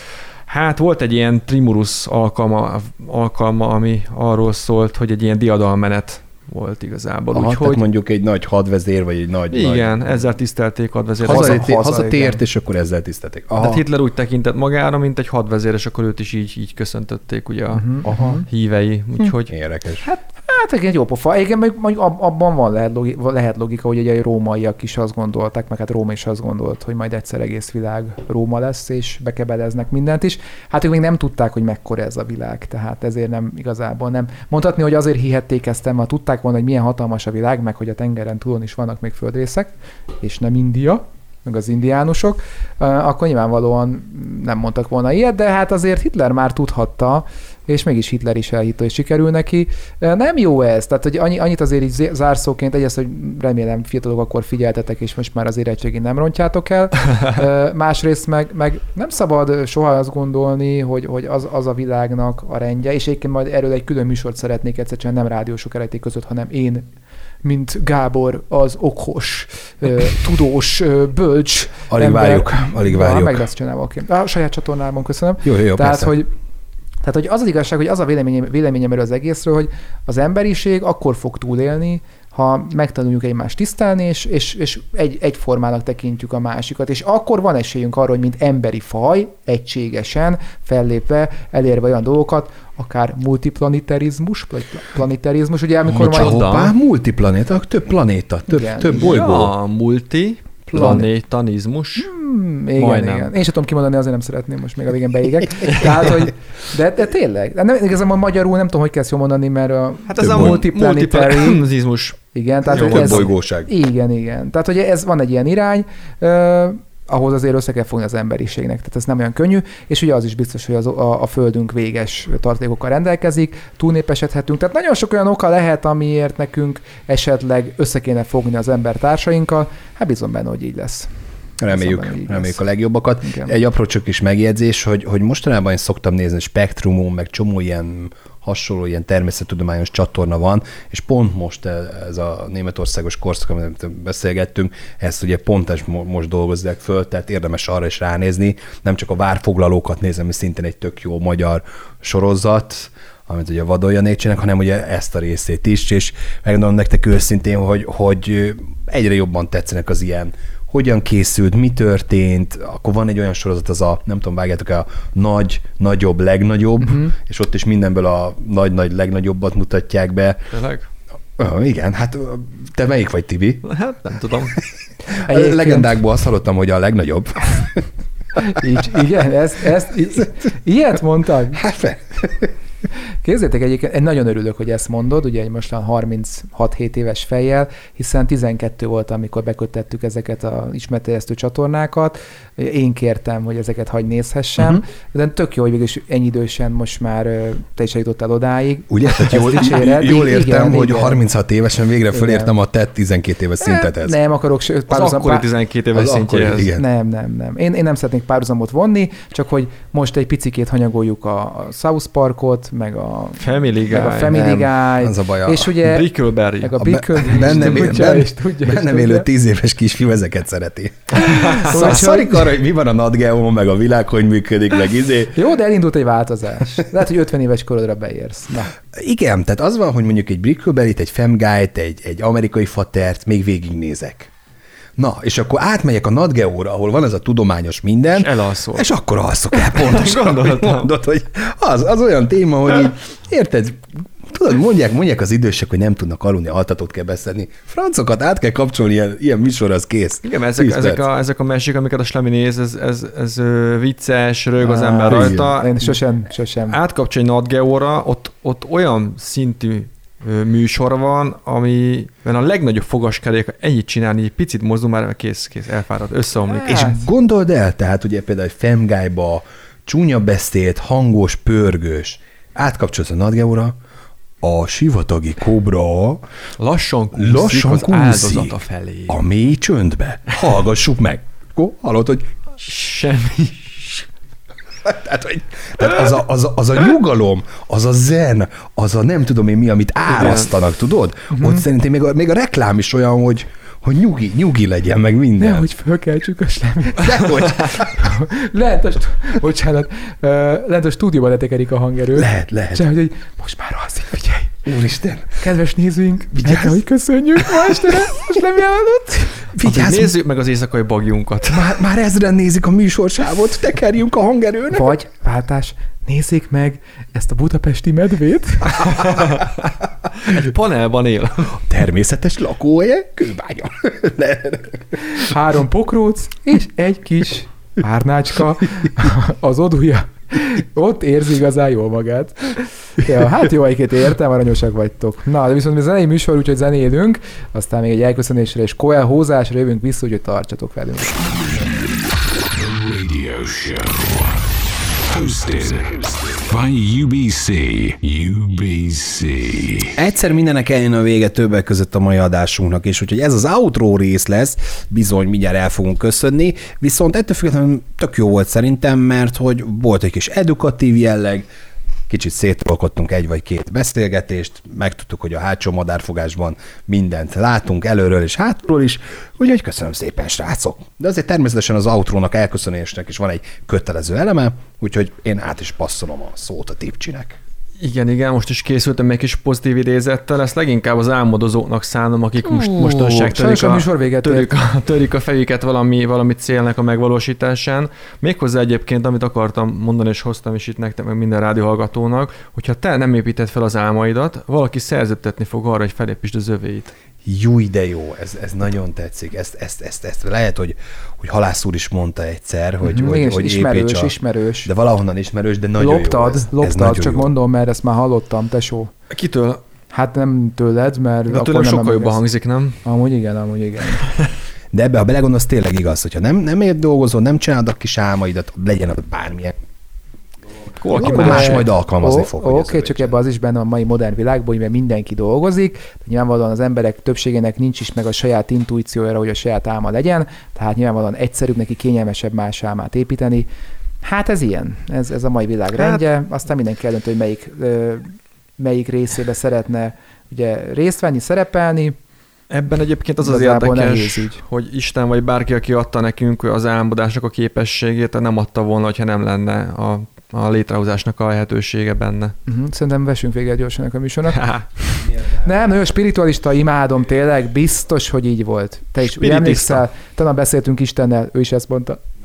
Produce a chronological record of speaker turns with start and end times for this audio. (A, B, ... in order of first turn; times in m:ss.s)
0:00.5-0:07.8 A
0:07.3-0:10.0 B
0:09.5-0:11.8 A
0:11.2-0:13.8 B
0:11.2-0:12.4 C
0:13.6-0:19.5 A
0:17.8-0:18.4 C
0:19.5-0:20.0 B
0:20.0-1:06.9 C
1:07.4-1:16.3 C
1:11.9-1:13.4 B
1:15.4-1:16.1 B
1:17.0-1:36.5 C
1:35.9-1:39.5 B
1:35.9-1:36.7 A
1:38.5-1:39.1 C
1:38.9-1:42.1 A
1:40.7-1:41.0 B
1:40.7-1:41.1 C
1:42.0-1:51.7 C
1:42.8-1:43.3 A
1:50.1-1:52.2 A
1:50.2-1:50.6 B
1:52.3-2:11.1 C
1:52.7-1:53.7 B
1:52.8-1:53.2 A
2:11.6-2:50.4 B
2:11.7-2:12.6 C
2:13.2-2:13.5 C
2:46.8-2:47.1 C
2:50.5-2:50.9 A
2:51.4-2:53.6 B
2:53.6-2:54.6 A
2:55.1-2:55.9 C
2:55.2-2:57.8 B
2:58.4-3:01.6 C
3:01.5-3:02.5 B
3:03.2-3:21.2 C
3:18.9-3:24.2 B
3:22.1-3:22.5 C
3:23.6-3:25.4 C
3:24.9-3:26.7 A
3:25.9-3:26.8 B
3:26.8-3:36.1 C
3:33.4-3:34.4 A
3:34.3-3:35.8 B
3:35.8-3:38.1 A
3:36.6-3:39.3 C
3:36.8-3:45.4 B
3:41.3-3:42.5 C
3:41.4-3:41.7 A
3:45.3-3:48.7 C
3:48.9-3:54.3 B
3:55.0-4:11.0 B
3:58.1-3:58.9 A
3:59.6-4:00.9 A
4:10.2-4:16.0 A
4:14.6-4:16.8 C
4:15.1-4:15.5 B
4:16.7-4:26.9 A
4:26.4-4:27.0 C
4:26.7-4:33.8 B
4:34.4-4:36.2 B
4:36.6-4:39.2 A
4:37.1-4:42.3 B
4:42.6-4:44.1 A
4:44.8-4:55.7 B
4:50.1-4:50.5 A
4:51.3-4:51.6 C
4:55.4-5:04.6 C
4:57.0-4:58.1 B
5:02.2-5:02.8 B
5:04.7-5:05.4 B
5:05.4-5:09.4 C
5:06.3-5:06.8 B
5:07.4-5:07.8 B
5:09.5-5:10.1 B
5:09.6-5:11.7 A
5:11.5-5:14.9 B
5:14.7-5:19.0 C
5:18.8-5:19.5 A
5:20.2-5:21.6 A
5:21.6-5:25.2 B
5:25.1-5:41.4 C
5:41.1-5:50.0 D
5:50.0-6:01.4 B
6:02.1-6:17.4 B
6:17.8-6:36.9 A
6:22.4-6:24.5 C
6:37.2-6:47.3 B
6:42.8-6:44.7 C
6:45.8-6:48.9 C
6:49.1-6:49.6 A
6:49.9-6:52.2 C
6:51.3-6:52.8 A
6:52.8-6:54.0 C
6:54.7-6:59.6 B
7:00.8-7:01.7 A
7:00.8-7:03.2 B
7:01.0-7:13.5 C
7:14.0-7:22.0 C
7:15.8-7:16.0 A
7:22.5-7:32.4 A
7:23.2-7:24.4 C
7:32.5-7:34.5 C
7:34.3-7:34.6 A
7:35.0-7:35.7 B
7:35.4-7:42.0 C
7:39.0-7:39.8 A